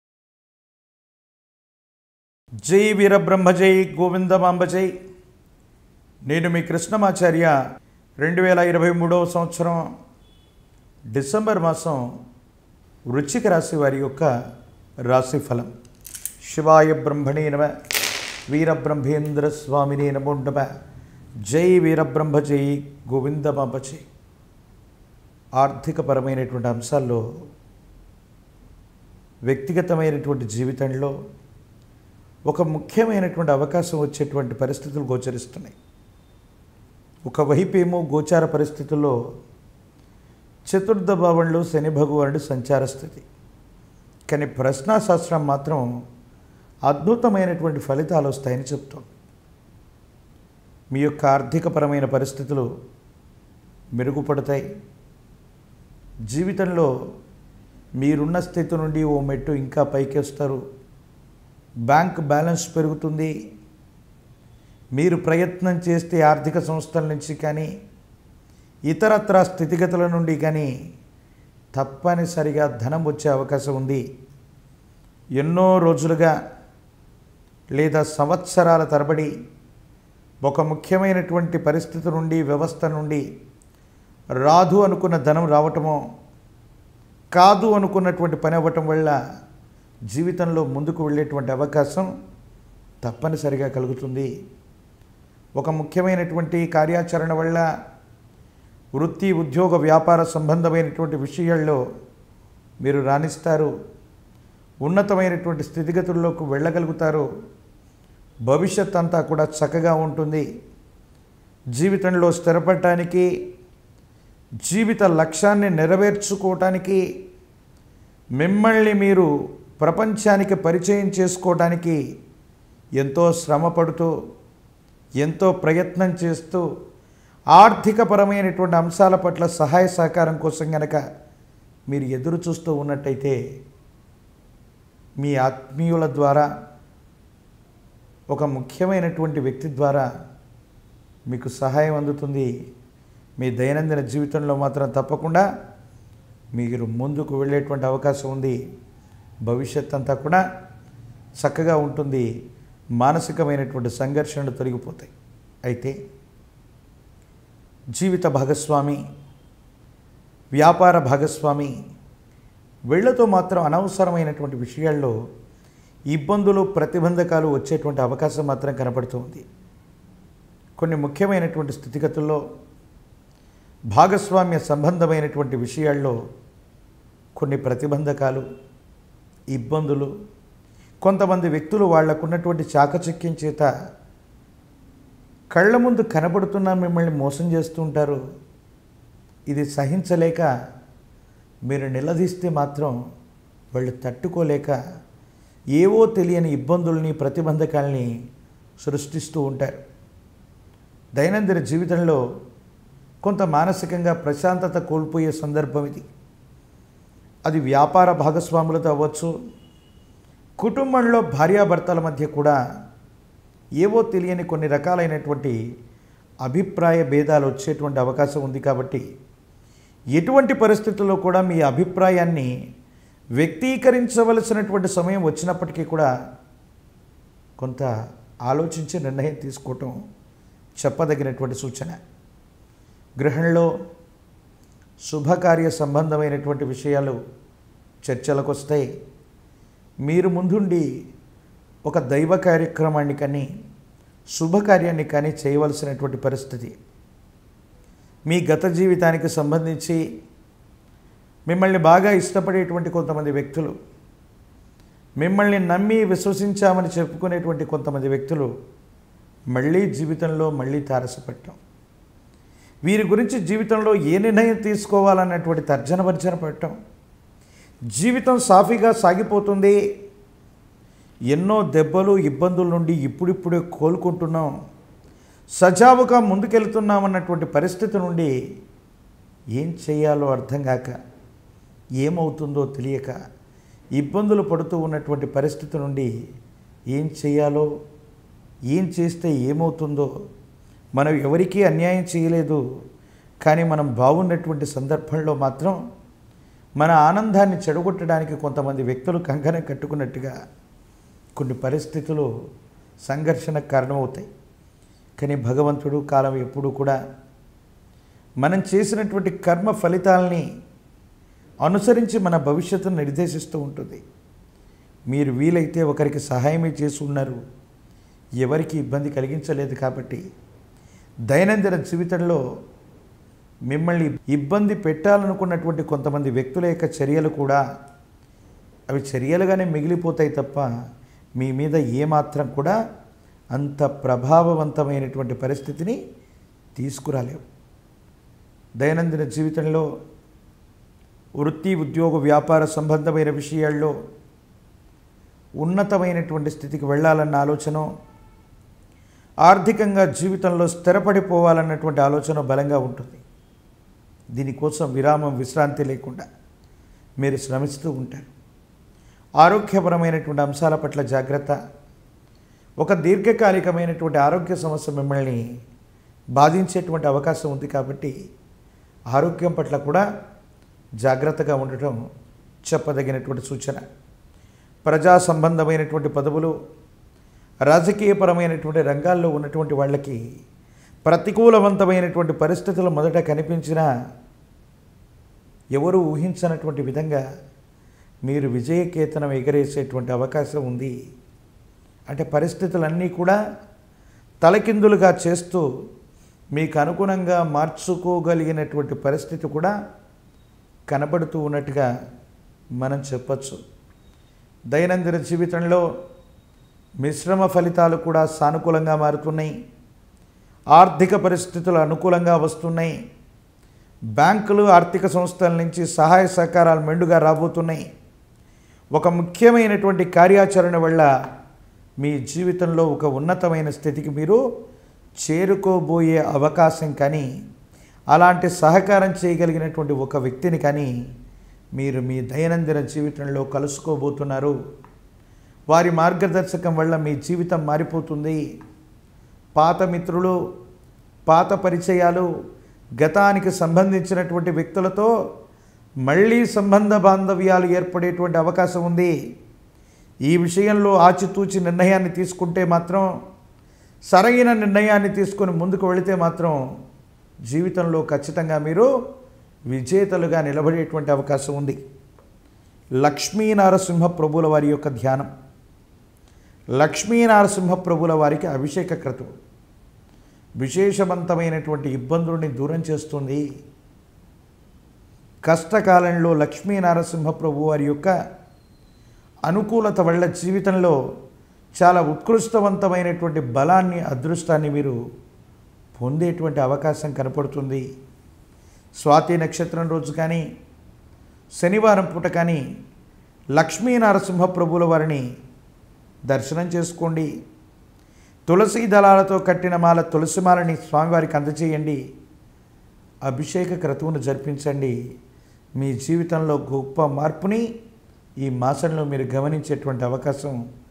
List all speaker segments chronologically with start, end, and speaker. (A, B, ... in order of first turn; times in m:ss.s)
0:02.6-0:04.9 A
0:06.3-0:07.6 A
0:08.2-0:09.8 A
0:11.1-0:12.0 A
0:13.1-0:14.3 A
0:15.1-0:15.7 A
0:16.4-0:17.7 A
0:18.5-0:20.7 A
0:21.5-0:24.0 A
0:25.6-0:27.2 A
0:29.5-0:31.1 A
0:32.5-0:35.8 A
0:37.2-0:39.2 A
0:40.6-0:43.2 A
0:44.3-0:45.8 A
0:46.9-0:49.1 A
0:50.9-0:52.7 A
0:54.0-0:54.6 A
0:56.3-0:56.9 A
0:58.0-1:00.6 A
1:01.9-1:03.3 A
1:05.0-1:07.7 A
1:08.9-1:10.7 A
1:11.8-1:14.0 A
1:15.4-1:16.3 A
1:17.7-1:19.3 A
1:20.4-1:23.2 A
1:24.4-1:26.0 A
1:27.4-1:29.2 A
1:30.1-1:32.1 A
1:33.0-1:34.3 A
1:35.6-1:37.7 A
1:39.0-1:41.8 A
1:42.8-1:43.7 A
1:44.8-1:47.3 A
1:48.5-1:50.4 A
1:51.8-1:53.3 A
1:54.6-1:57.0 A
1:58.4-2:02.0 A
2:03.0-2:04.1 A
2:05.2-2:06.6 A
2:07.5-2:11.0 A
2:11.9-2:13.4 A
2:15.2-2:16.5 A
2:18.3-2:20.1 A
2:21.3-2:22.5 A
2:23.4-2:25.4 A
2:26.6-2:28.6 A
2:29.4-2:30.4 A
2:31.4-2:32.3 A
2:33.0-2:35.1 A
2:35.6-2:36.0 A
2:37.9-2:39.0 A
2:40.6-2:41.7 A
2:42.9-2:45.1 A
2:46.1-2:49.4 A
2:50.8-2:52.4 A
2:53.9-2:56.2 A
2:57.4-2:58.4 A
2:59.5-3:00.1 A
3:01.0-3:03.7 A
3:05.5-3:08.2 A
3:09.5-3:10.5 A
3:11.7-3:13.0 A
3:13.7-3:14.8 A
3:15.8-3:18.1 A
3:18.8-3:19.8 A
3:21.2-3:22.2 A
3:23.2-3:26.1 A
3:27.4-3:29.3 A
3:30.6-3:32.6 A
3:33.8-3:35.6 A
3:36.4-3:39.0 A
3:40.2-3:42.5 A
3:43.4-3:46.1 A
3:47.6-3:47.9 A
3:48.5-3:50.0 A
3:50.8-3:52.0 A
3:53.2-3:53.7 A
3:55.0-3:57.2 A
3:58.0-3:58.9 A
4:00.0-4:00.9 A
4:01.8-4:03.5 A
4:04.4-4:06.7 A
4:08.3-4:10.0 A
4:11.5-4:13.7 A
4:15.2-4:18.5 A
4:19.5-4:21.6 A
4:22.8-4:26.7 A
4:27.9-4:29.8 A
4:31.3-4:34.5 A
4:35.6-4:38.3 A
4:39.6-4:40.9 A
4:42.0-4:43.1 A
4:44.0-4:46.1 A
4:46.9-4:47.7 A
4:48.7-4:50.1 A
4:51.0-4:52.6 A
4:53.4-4:55.8 A
4:56.8-5:00.3 A
5:01.4-5:02.3 A
5:03.1-5:04.3 A
5:05.2-5:07.0 A
5:08.4-5:10.5 A
5:11.6-5:14.0 A
5:15.1-5:17.4 A
5:18.4-5:20.2 A
5:21.3-5:22.4 A
5:23.7-5:27.6 A
5:28.9-5:30.7 A
5:31.4-5:32.8 A
5:33.5-5:36.0 A
5:36.7-5:37.4 A
5:38.8-5:39.9 A
5:41.4-5:43.9 A
5:45.6-5:47.9 A
5:49.4-5:53.2 A
5:54.4-5:56.2 A
5:57.2-5:58.3 A
5:59.4-6:01.5 A
6:02.8-6:05.4 A
6:06.3-6:08.1 A
6:09.1-6:10.0 A
6:11.0-6:12.0 A
6:12.6-6:13.8 A
6:14.8-6:16.5 A
6:17.6-6:20.2 A
6:21.0-6:23.9 A
6:25.8-6:27.2 A
6:28.2-6:30.9 A
6:32.1-6:33.4 A
6:34.4-6:35.6 A
6:36.6-6:39.7 A
6:40.9-6:41.9 A
6:42.8-6:43.6 A
6:44.7-6:45.8 A
6:47.0-6:49.5 A
6:50.7-6:52.9 A
6:54.2-6:57.8 A
6:58.9-7:01.1 A
7:02.0-7:04.4 A
7:05.2-7:07.3 A
7:08.1-7:10.9 A
7:11.8-7:14.6 A
7:15.7-7:18.4 A
7:19.5-7:20.4 A
7:21.3-7:22.3 A
7:23.0-7:25.1 A
7:26.0-7:29.1 A
7:30.3-7:33.1 A
7:34.1-7:36.6 A
7:37.5-7:38.9 A
7:39.7-7:41.8 A
7:43.0-7:45.3 A
7:46.8-7:49.3 A
7:50.6-7:53.4 A
7:55.4-7:58.1 A
7:59.4-8:01.0 A
8:01.8-8:05.0 A
8:05.9-8:07.8 A
8:09.0-8:10.4 A
8:11.6-8:12.6 A
8:13.6-8:15.2 A
8:16.3-8:17.3 A
8:18.5-8:22.0 A
8:23.3-8:25.0 A
8:25.8-8:27.7 A
8:28.4-8:30.6 A